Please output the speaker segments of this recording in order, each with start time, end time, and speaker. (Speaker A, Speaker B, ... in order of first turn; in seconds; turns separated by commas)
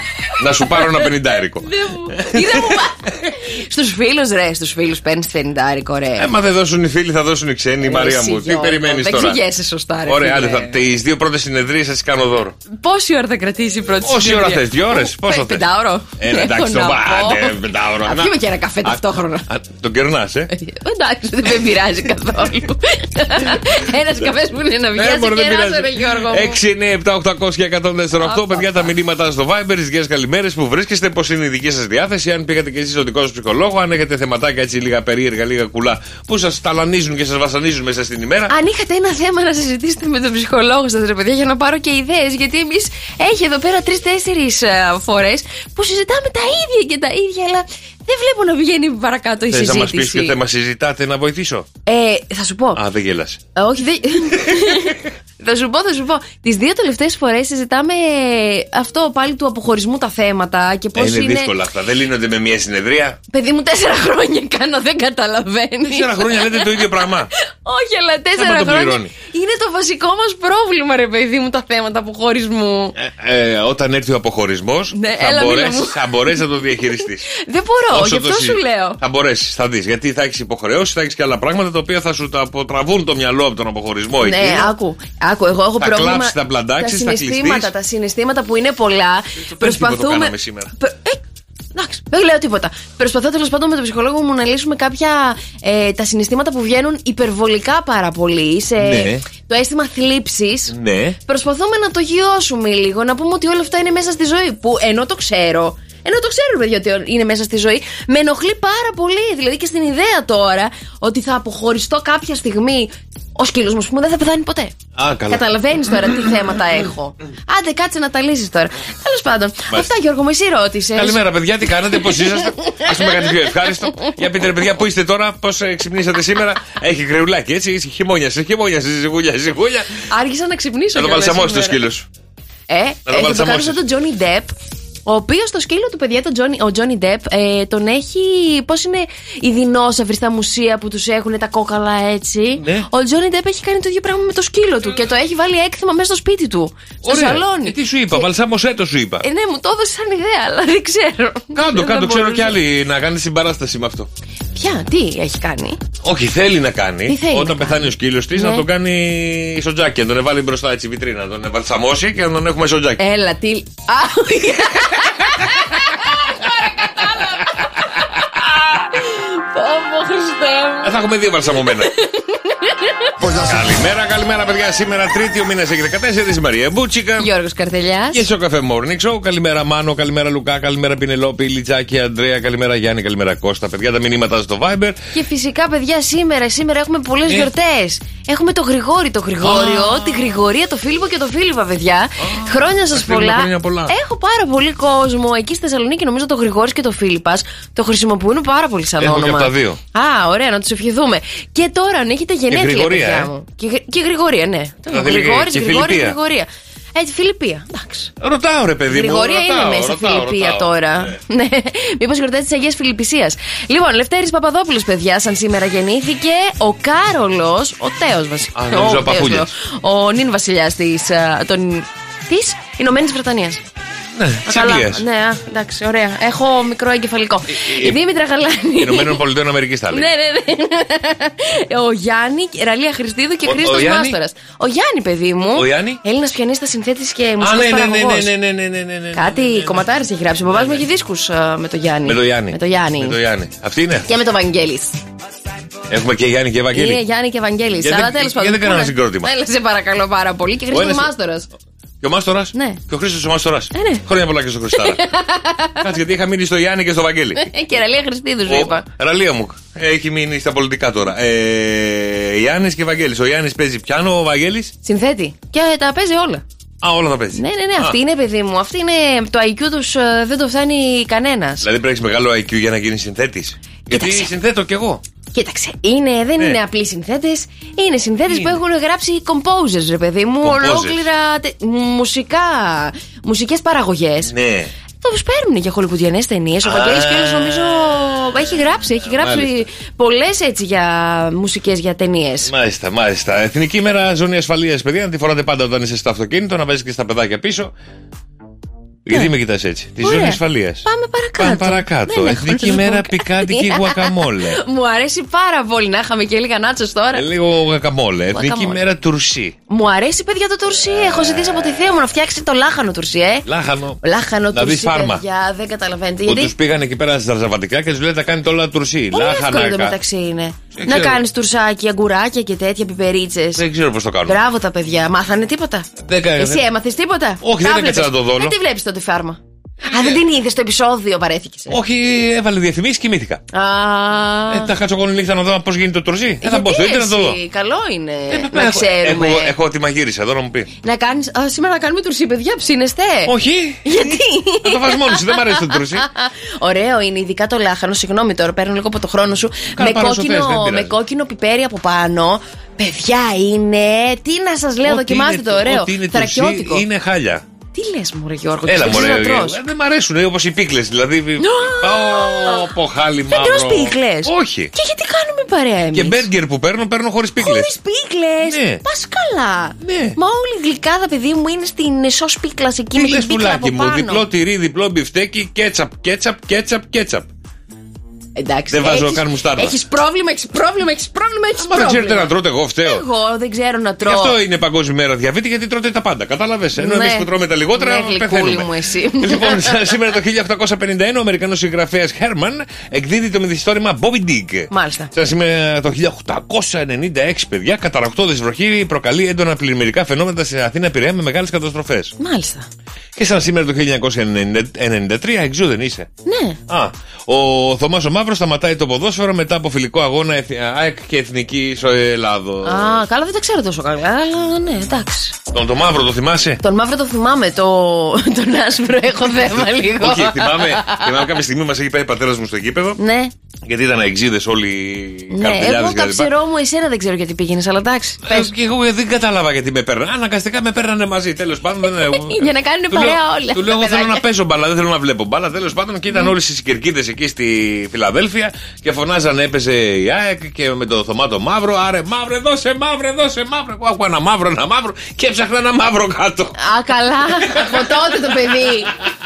Speaker A: 0.4-2.8, Speaker B: 0.7-1.1, Speaker B: 1.6-6.3, Speaker A: 6.2-9.4, Speaker B: 7.8-10.8, Speaker A: 10.1-12.6, Speaker B: 12.7-19.5, Speaker A: 14.0-15.7, Speaker A: 16.2-20.5, Speaker B: 20.5-26.6, Speaker A: 24.9-38.5, Speaker B: 28.1-28.9, Speaker B: 38.5-50.3, Speaker A: 49.5-51.7, Speaker B: 51.9-52.8, Speaker A: 52.8-53.4, Speaker B: 53.5-61.5, Speaker A: 54.5-54.8, Speaker A: 61.0-63.2, Speaker B: 63.3-67.1, Speaker A: 65.9-67.3, Speaker B: 67.7-73.0, Speaker A: 68.4-69.1, Speaker A: 73.0-77.3, Speaker B: 74.9-79.0, Speaker A: 77.9-84.7, Speaker B: 84.2-91.2, Speaker A: 85.8-87.7, Speaker A: 89.4-90.7, Speaker B: 91.8-100.7, Speaker A: 98.8-99.3, Speaker A: 100.7-101.2, Speaker B: 101.3-114.8, Speaker A: 115.0-116.2, Speaker B: 115.3-121.2, Speaker A: 121.0-129.9, Speaker B: 122.0-124.1, Speaker B: 130.1-131.8, Speaker A: 130.9-132.1, Speaker B: 132.7-134.5, Speaker A: 133.1-133.8, Speaker B: 135.1-148.3, Speaker A: 142.6-142.9, Speaker A: 147.0-149.2, Speaker B: 149.2-152.6, Speaker A: 151.5-154.1, Speaker B: 154.6-155.8, Speaker A: 156.0-163.0, Speaker B: 157.1-158.6, Speaker B: 163.0-167.5, Speaker B: 168.5-170.9, Speaker A: 170.8-171.9, Speaker B: 171.8-173.1, Speaker A: 173.3-177.3, Speaker B: 177.2-178.2, Speaker A: 178.1-185.0, Speaker B: 185.1-208.1, Speaker A: 189.4-190.4, Speaker A: 192.2-193.9, Speaker A: 199.0-199.8, Speaker A: 202.5-203.3, Speaker A: 204.9-206.2, Speaker A: 208.2-211.2, Speaker B: 208.9-223.6, Speaker A: 218.6-219.5, Speaker A: 224.2-225.0, Speaker B: 224.5-229.2, Speaker A: 227.5-228.0, Speaker A: 228.8-230.1, Speaker B: 229.9-238.3, Speaker A: 233.4-234.2, Speaker A: 235.6-236.0, Speaker A: 237.4-239.8, Speaker B: 239.1-243.2, Speaker A: 240.5-240.8, Speaker A: 242.1-244.1, Speaker B: 244.1-245.0, Speaker A: 245.9-247.0, Speaker B: 246.7-251.5, Speaker A: 247.8-249.3, Speaker A: 250.7-251.1, Speaker A: 252.0-255.0, Speaker B: 252.5-252.8, Speaker B: 253.7-254.0, Speaker B: 254.7-255.9, Speaker A: 255.8-257.5, Speaker B: 257.4-258.8, Speaker A: 258.5-264.7, Speaker B: 264.8-266.4, Speaker A: 266.8-268.0, Speaker B: 267.3-271.7, Speaker A: 271.6-275.0, Speaker B: 273.9-274.3, Speaker B: 275.3-284.3, Speaker A: 278.3-278.6, Speaker A: 280.4-281.0, Speaker A: 284.3-284.7, Speaker B: 285.0-292.5, Speaker A: 286.6-288.2, Speaker A: 289.0-289.7, Speaker A: 292.4-297.7, Speaker A: 299.1-300.9, Speaker B: 300.0-307.2, Speaker A: 301.4-304.6, Speaker A: 307.1-309.6, Speaker B: 308.3-308.8, Speaker B: 309.7-313.5, Speaker A: 310.9-311.7, Speaker A: 313.5-314.0, Speaker B: 314.0-316.5, Speaker A: 314.5-315.2, Speaker A: 316.3-320.0, Speaker B: 319.1-323.6, Speaker A: 320.7-321.2, Speaker A: 323.6-324.4, Speaker B: 324.2-325.9, Speaker A: 326.0-326.6, Speaker B: 326.4-331.8, Speaker A: 327.4-328.6, Speaker A: 331.7-333.4, Speaker B: 333.5-334.7, Speaker A: 334.5-337.4, Speaker B: 336.4-339.5, Speaker A: 338.3-340.7, Speaker B: 340.8-343.3, Speaker A: 343.3-346.1, Speaker B: 343.9-356.8, Speaker A: 349.8-350.9, Speaker A: 354.9-357.4, Speaker B: 357.7-359.6, Speaker A: 358.7-364.7, Speaker B: 361.4-362.7, Speaker B: 363.3-366.3, Speaker A: 365.9-367.7, Speaker B: 367.4-374.3, Speaker A: 368.4-368.8, Speaker A: 369.8-370.2, Speaker A: 372.9-377.3, Speaker B: 378.4-382.3, Speaker A: 378.7-379.8, Speaker A: 381.6-383.1, Speaker B: 382.8-384.4, Speaker A: 384.0-402.1, Speaker B: 386.8-389.9, Speaker B: 394.7-395.1, Speaker B: 402.2-402.7, Speaker A: 403.2-406.1, Speaker B: 406.3-406.6, Speaker A: 406.7-413.0, Speaker B: 412.6-415.4, Speaker A: 415.5-416.6, Speaker B: 416.6-421.3, Speaker A: 419.6-423.0, Speaker B: 423.0-423.3, Speaker A: 423.6-426.3, Speaker B: 425.3-428.5, Speaker A: 428.3-446.6, Speaker B: 431.9-434.2, Speaker B: 446.6-448.9, Speaker A: 447.5-447.9